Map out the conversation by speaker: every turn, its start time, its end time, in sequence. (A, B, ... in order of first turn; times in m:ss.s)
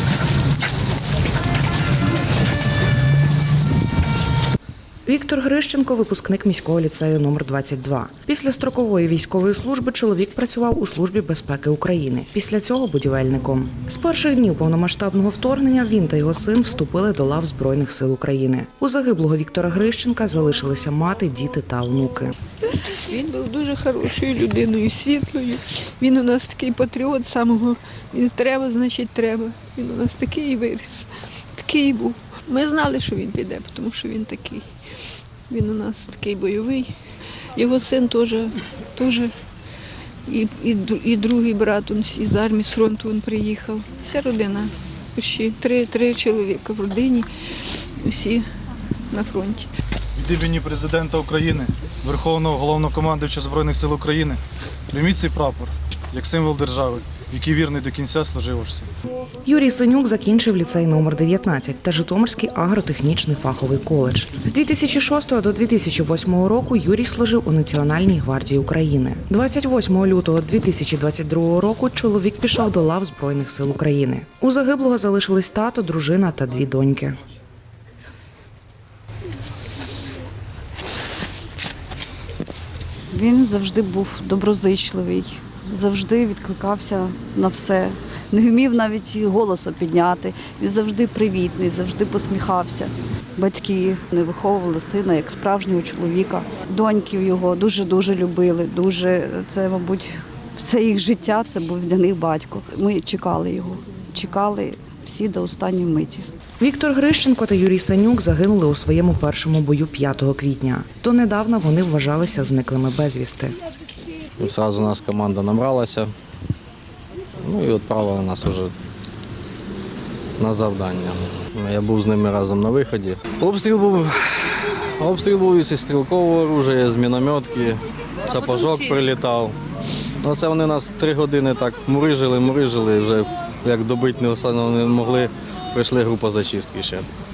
0:05.0-0:22.4 A
0:22.7-0:34.7 B
0:35.5-0:36.9 B
0:37.5-0:39.3 B
0:40.2-0:48.5 B
0:49.1-0:49.7 B
0:50.2-0:54.4 C
0:54.9-0:58.9 C
0:59.4-1:17.2 A
1:23.1-1:46.2 D
1:46.6-1:53.5 A
1:54.4-1:56.1 E
1:57.4-1:58.7 E
2:00.4-2:09.6 E
2:10.2-2:17.1 E